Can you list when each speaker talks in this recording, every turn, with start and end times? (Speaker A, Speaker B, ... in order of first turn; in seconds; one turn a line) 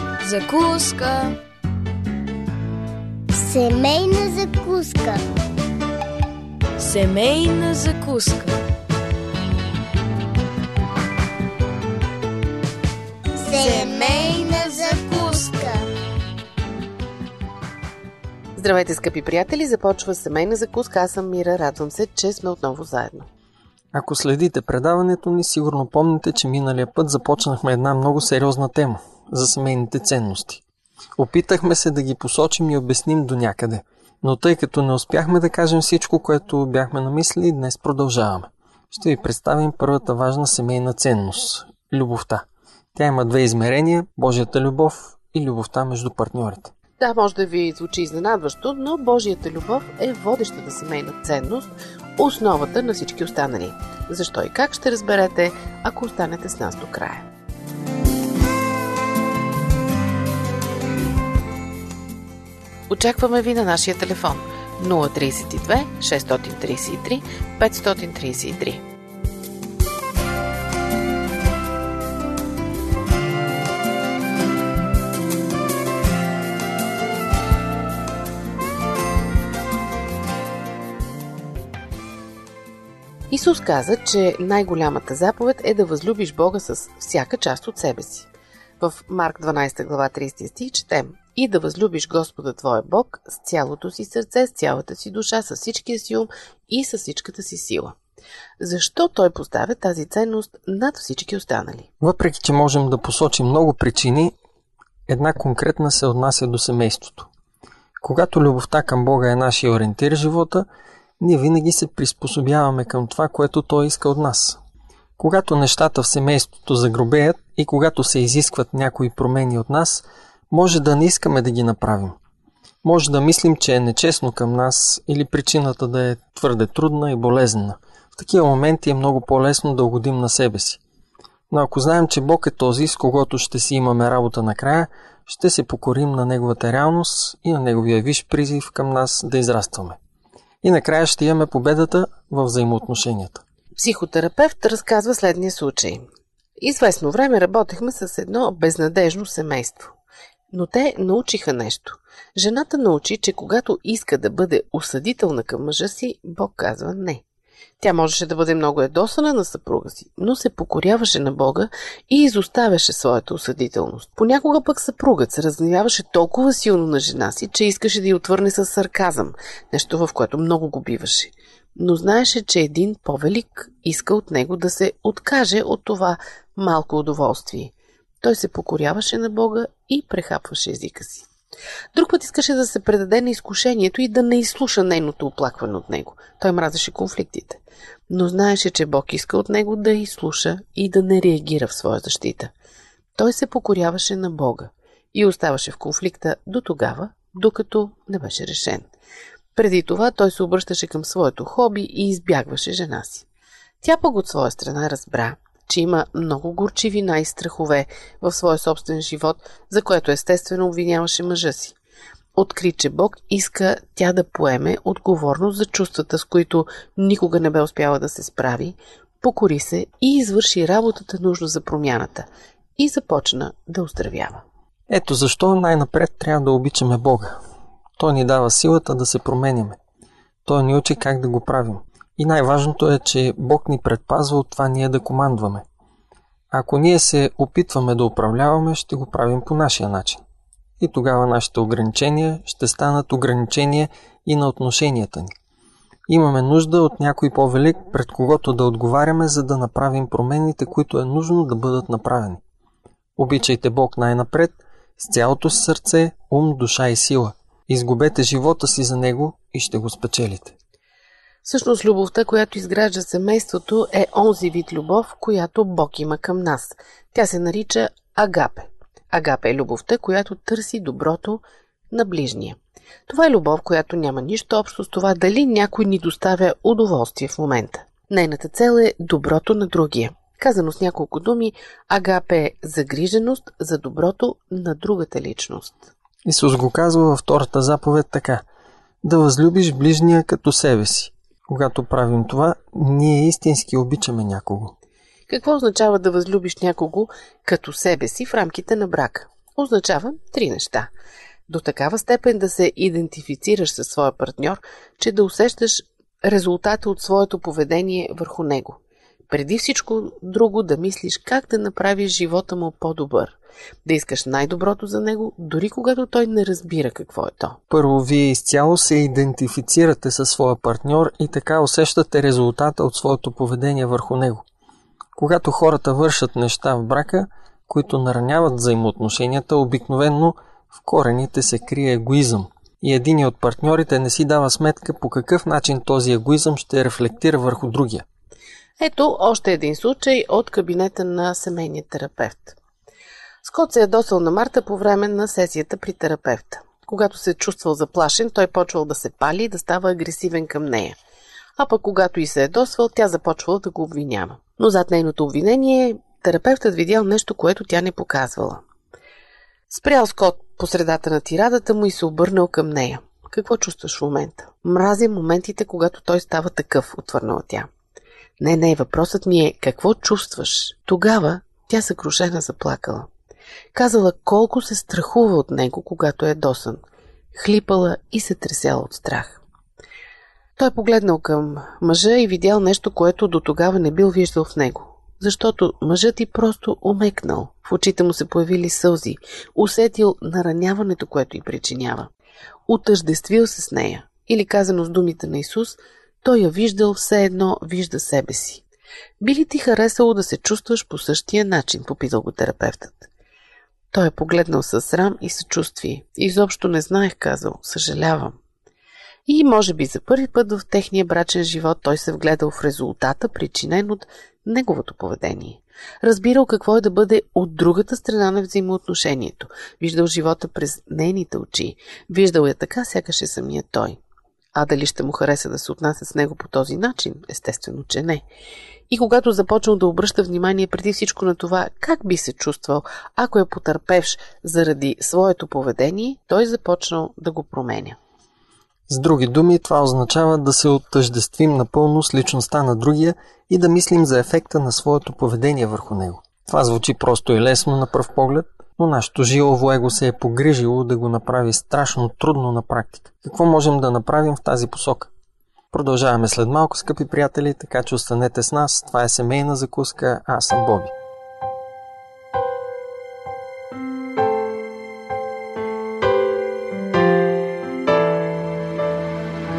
Speaker A: 0.2-1.4
Speaker B: 3.3-5.2
Speaker A: 6.8-8.6
Speaker B: 13.4-15.8
Speaker A: 13.6-15.4
Speaker C: 18.6-23.3
Speaker D: 23.9-30.6
Speaker D: 31.2-46.7
Speaker C: 47.0-57.3
Speaker C: 62.9-68.8
Speaker C: 83.3-88.3
Speaker C: 88.8-98.0
Speaker C: 98.6-101.9
Speaker D: 102.0-104.3
Speaker D: 105.1-107.3
Speaker D: 108.0-110.7
Speaker D: 111.2-114.6
Speaker D: 115.2-122.2
Speaker D: 122.8-130.8
Speaker D: 131.5-140.0
Speaker D: 140.6-143.4
Speaker C: 143.8-146.0
Speaker C: 146.6-149.9
Speaker C: 150.5-157.2
Speaker C: 157.8-181.2
Speaker C: 181.9-192.5
Speaker C: 193.2-198.9
Speaker C: 199.5-203.2
Speaker C: 203.8-211.7
Speaker C: 212.3-224.4
Speaker D: 224.9-227.4
Speaker D: 228.0-229.8
Speaker D: 230.4-235.7
Speaker D: 236.5-240.2
Speaker D: 240.8-245.3
Speaker D: 246.1-252.4
Speaker D: 253.2-260.5
Speaker C: 261.4-285.9
Speaker D: 286.2-288.4
Speaker D: 289.0-294.7
Speaker C: 295.3-300.9
Speaker C: 301.5-308.8
Speaker C: 309.3-317.6
Speaker D: 317.7-324.4
Speaker D: 325.1-338.0
Speaker C: 338.8-342.6
Speaker C: 343.4-350.9
Speaker C: 351.6-358.6
Speaker C: 359.7-367.7
Speaker C: 368.4-373.1
Speaker C: 373.7-376.8
Speaker C: 377.3-379.4
Speaker C: 380.6-392.1
Speaker C: 392.7-398.6
Speaker C: 399.2-403.1
Speaker C: 403.9-408.4
Speaker C: 409.3-424.0
Speaker C: 424.5-428.2
Speaker C: 428.9-437.9
Speaker D: 438.9-455.1
Speaker D: 455.7-460.9